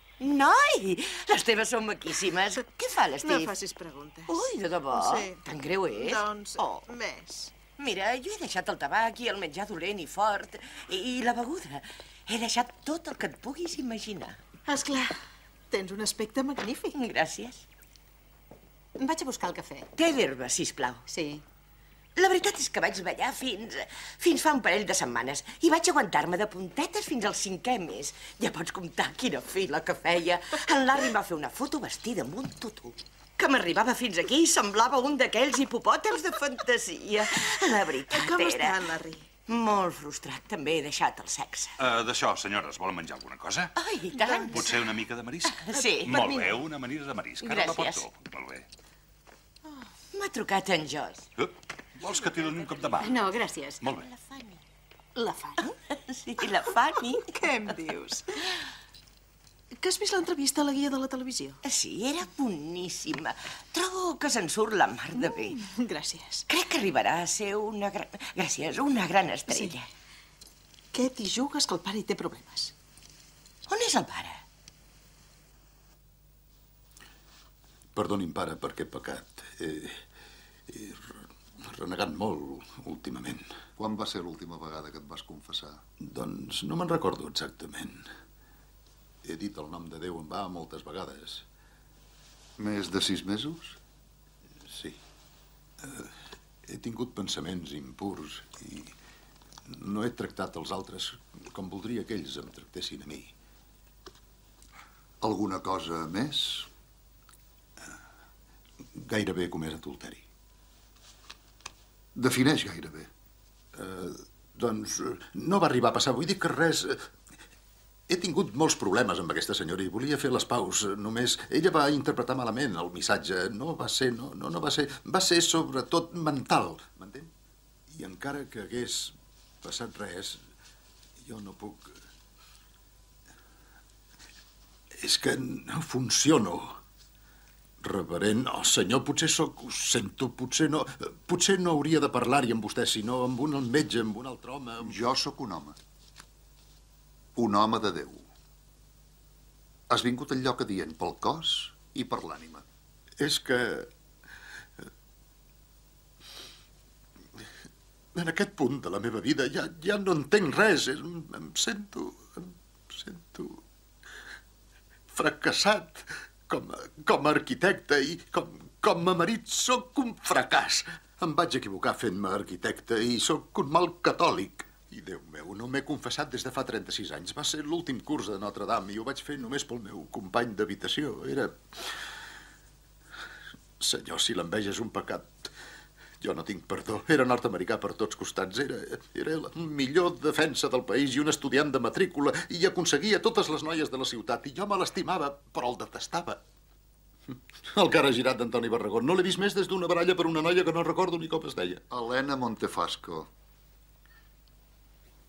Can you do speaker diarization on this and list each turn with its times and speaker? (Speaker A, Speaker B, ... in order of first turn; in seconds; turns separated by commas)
Speaker A: 0.2-3.5, Speaker B: 3.2-5.4, Speaker A: 4.3-6.9, Speaker B: 5.9-7.6, Speaker A: 7.6-14.4, Speaker B: 14.7-15.1, Speaker B: 15.7-16.9, Speaker A: 16.9-17.6, Speaker C: 19.0-19.9, Speaker A: 19.9-21.0, Speaker C: 21.1-21.4, Speaker A: 22.2-38.9, Speaker B: 38.1-39.2, Speaker A: 39.5-41.7, Speaker D: 41.8-43.7, Speaker A: 43.8-44.8, Speaker B: 44.2-44.5, Speaker D: 44.4-48.6, Speaker A: 45.5-46.4, Speaker A: 47.4-48.0, Speaker A: 50.1-51.3, Speaker D: 51.4-53.2, Speaker A: 52.4-53.0, Speaker C: 53.0-53.8, Speaker D: 53.8-54.1, Speaker A: 53.9-54.6, Speaker A: 55.6-57.5, Speaker B: 57.2-58.3, Speaker B: 59.8-61.6, Speaker A: 61.6-65.7, Speaker B: 65.2-66.4, Speaker A: 66.5-69.9, Speaker B: 70.9-72.7, Speaker A: 73.7-74.4, Speaker E: 77.9-80.0, Speaker E: 80.7-83.5, Speaker F: 83.8-85.8, Speaker E: 86.0-88.0, Speaker E: 89.2-91.4, Speaker F: 92.6-93.8, Speaker E: 94.7-95.0, Speaker E: 95.8-96.1, Speaker E: 96.7-98.9, Speaker E: 99.7-103.3, Speaker F: 105.2-106.7, Speaker E: 108.9-110.2, Speaker F: 112.1-113.1, Speaker E: 113.7-117.1, Speaker E: 118.1-127.3, Speaker E: 127.9-130.4, Speaker E: 131.2-132.0, Speaker E: 134.9-136.8, Speaker E: 137.8-145.0, Speaker F: 144.8-145.8, Speaker F: 147.3-148.3, Speaker F: 149.9-152.6, Speaker E: 153.2-153.9, Speaker E: 158.1-163.6, Speaker E: 165.1-181.6, Speaker E: 183.8-185.5, Speaker E: 186.2-196.4, Speaker E: 197.3-201.8, Speaker F: 201.9-203.3